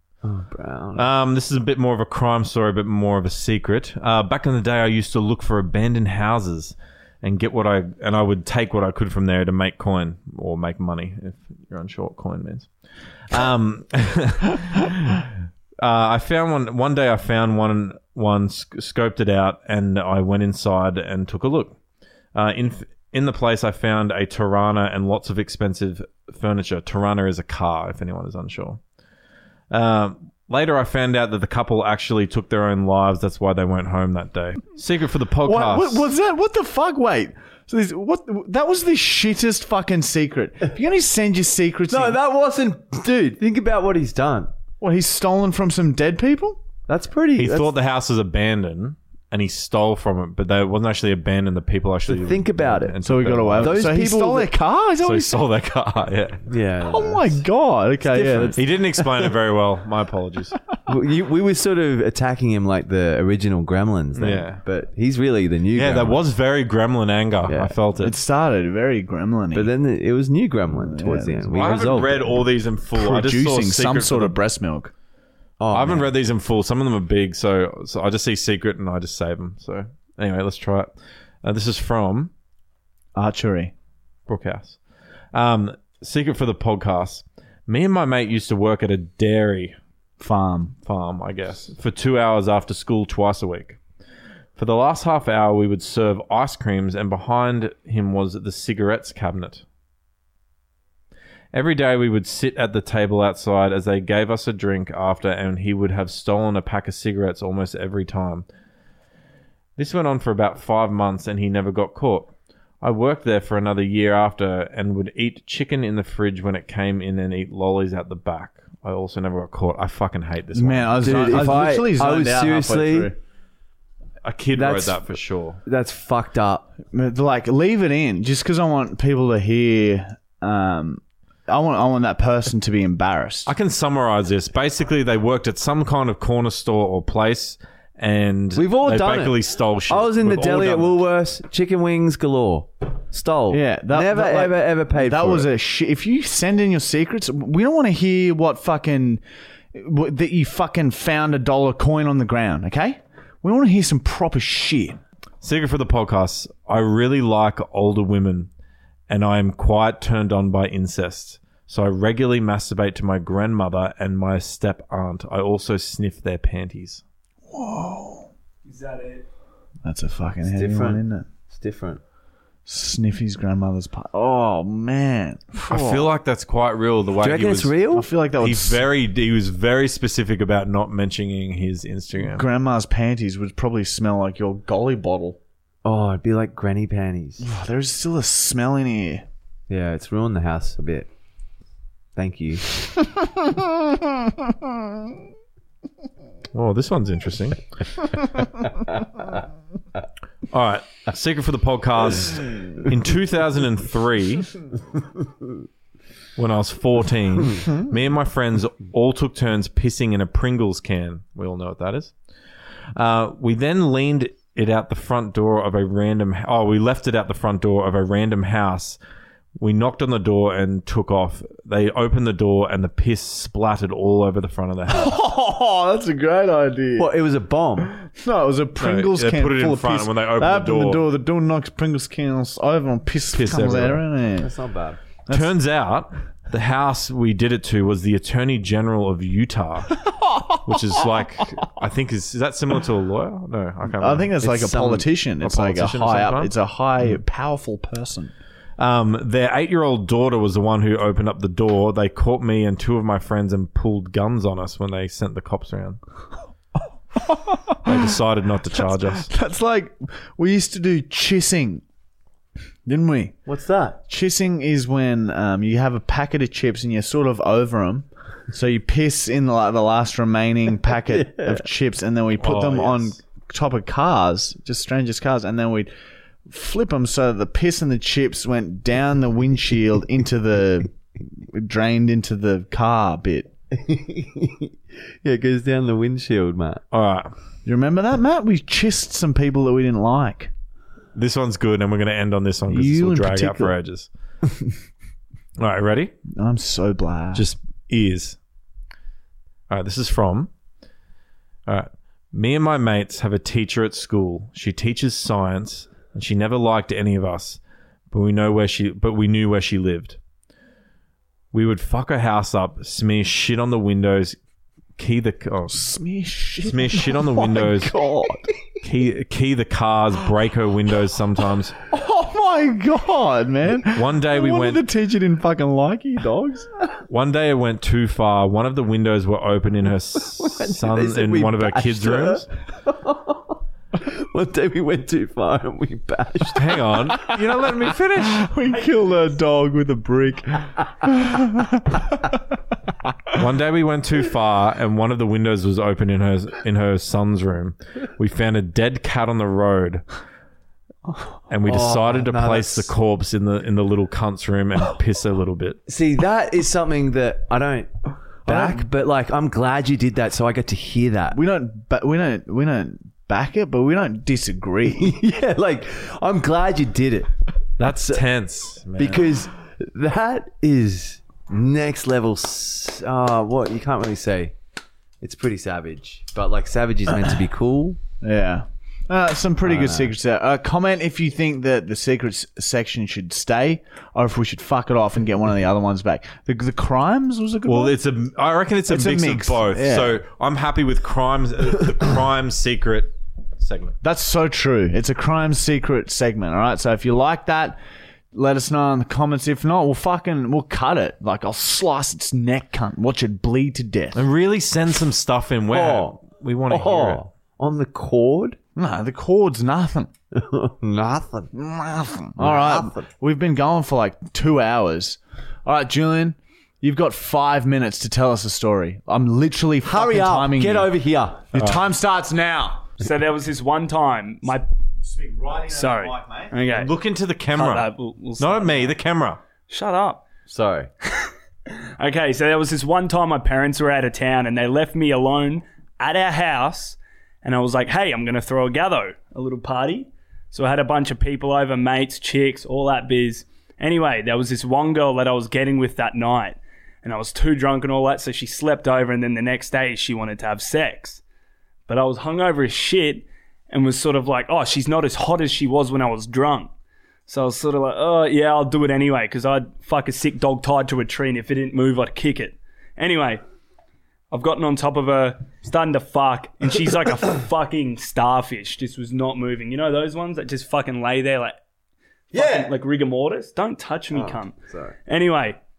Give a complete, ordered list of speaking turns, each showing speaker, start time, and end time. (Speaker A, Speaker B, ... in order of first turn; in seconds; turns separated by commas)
Speaker A: 0.2-1.1, Speaker B: 0.9-12.7, Speaker B: 13.3-21.8, Speaker B: 22.3-28.8, Speaker B: 29.7-36.1, Speaker C: 35.4-42.2, Speaker A: 41.9-44.5, Speaker C: 44.8-46.6, Speaker A: 46.9-47.7, Speaker B: 47.4-53.9, Speaker A: 52.0-53.0, Speaker C: 53.0-55.4, Speaker A: 53.6-54.5, Speaker B: 55.0-56.5, Speaker A: 56.5-57.4, Speaker C: 56.9-58.6, Speaker A: 58.0-59.3, Speaker B: 58.5-60.6, Speaker A: 60.9-66.2, Speaker B: 64.1-64.6, Speaker B: 65.7-68.2, Speaker A: 67.5-67.7, Speaker C: 68.0-69.7, Speaker A: 69.5-72.5, Speaker C: 70.7-71.8, Speaker B: 71.5-74.4, Speaker C: 72.9-74.9, Speaker A: 75.6-76.1, Speaker B: 75.7-80.9, Speaker B: 81.4-82.3, Speaker C: 83.1-83.7, Speaker B: 84.3-84.8, Speaker B: 85.3-89.8, Speaker C: 90.2-90.7, Speaker B: 90.8-93.8, Speaker B: 94.5-99.6, Speaker B: 101.5-108.4, Speaker B: 109.8-121.2, Speaker C: 120.5-123.2, Speaker A: 121.0-123.1, Speaker B: 124.2-125.6, Speaker A: 124.5-126.7, Speaker C: 126.9-133.5, Speaker B: 133.5-141.0, Speaker A: 138.5-145.5, Speaker C: 143.5-149.2, Speaker C: 149.7-155.0, Speaker B: 155.4-158.5, Speaker B: 159.1-167.0, Speaker C: 167.5-168.3, Speaker D: 168.6-169.3, Speaker C: 169.8-171.2, Speaker A: 170.4-172.0, Speaker C: 172.7-176.1, Speaker B: 175.7-177.7, Speaker A: 177.2-178.1, Speaker C: 177.9-178.8, Speaker B: 178.4-182.4, Speaker C: 182.2-185.4, Speaker A: 185.8-187.4, Speaker C: 187.4-189.2, Speaker A: 189.7-191.1, Speaker A: 192.2-192.6, Speaker B: 196.5-198.1, Speaker B: 200.5-204.5, Speaker B: 206.3-212.1, Speaker B: 212.9-219.0, Speaker B: 219.6-225.2, Speaker C: 224.9-227.1, Speaker A: 227.0-227.9, Speaker C: 227.9-234.5, Speaker B: 228.8-231.1, Speaker B: 233.3-234.0, Speaker A: 234.4-235.0, Speaker C: 235.3-235.5, Speaker B: 235.3-240.0, Speaker B: 240.6-244.3, Speaker C: 243.9-248.3, Speaker A: 244.4-245.1, Speaker B: 245.4-247.2, Speaker B: 248.8-256.0, Speaker C: 257.2-258.0, Speaker B: 257.8-259.3, Speaker C: 258.8-261.8, Speaker C: 262.9-263.4, Speaker A: 263.4-264.0, Speaker C: 264.1-275.9, Speaker A: 271.1-271.6, Speaker B: 272.4-273.2, Speaker C: 276.5-283.5, Speaker A: 283.7-286.8, Speaker B: 286.9-287.3, Speaker C: 287.6-290.5, Speaker B: 291.1-294.1, Speaker C: 292.7-293.7, Speaker B: 295.6-296.1, Speaker C: 296.3-297.4, Speaker B: 297.3-298.4, Speaker B: 299.7-300.5, Speaker B: 301.7-307.6, Speaker B: 308.1-310.2, Speaker B: 311.5-314.4, Speaker B: 315.0-315.9, Speaker C: 315.7-318.4, Speaker B: 316.6-317.9, Speaker A: 317.6-318.6, Speaker B: 318.8-321.8, Speaker C: 321.9-326.7, Speaker B: 323.8-324.8, Speaker B: 327.1-332.5, Speaker A: 330.4-337.4, Speaker B: 336.5-338.5, Speaker C: 337.4-342.4, Speaker D: 338.8-339.2, Speaker B: 343.3-350.1, Speaker B: 351.5-355.8, Speaker A: 351.7-352.9, Speaker A: 355.9-357.9, Speaker C: 358.4-358.9, Speaker A: 358.4-361.4, Speaker C: 361.3-365.2, Speaker A: 365.0-368.2, Speaker B: 367.8-369.3, Speaker A: 369.0-374.5, Speaker A: 375.2-378.0, Speaker C: 378.2-387.9, Speaker A: 379.6-380.1, Speaker B: 387.6-393.9, Speaker C: 388.9-390.2, Speaker C: 394.0-397.8, Speaker C: 398.3-404.2, Speaker B: 404.1-407.2, Speaker A: 405.7-406.2, Speaker A: 406.7-408.6, Speaker C: 408.8-410.1, Speaker A: 410.3-411.5, Speaker C: 411.5-420.9, Speaker A: 412.4-413.0, Speaker A: 419.8-421.5, Speaker C: 421.5-422.9, Speaker B: 421.6-421.9, Speaker D: 423.0-424.6, Speaker C: 425.0-426.6, Speaker D: 425.7-426.9, Speaker B: 426.7-429.4, Speaker D: 427.5-428.9, Speaker D: 429.7-430.2, Speaker A: 430.5-430.9, Speaker D: 431.1-451.2, Speaker D: 451.9-456.7, Speaker D: 457.3-463.4, Speaker D: 464.3-471.6, Speaker A: 472.3-472.7, Speaker D: 472.3-475.6, Speaker A: 474.1-474.9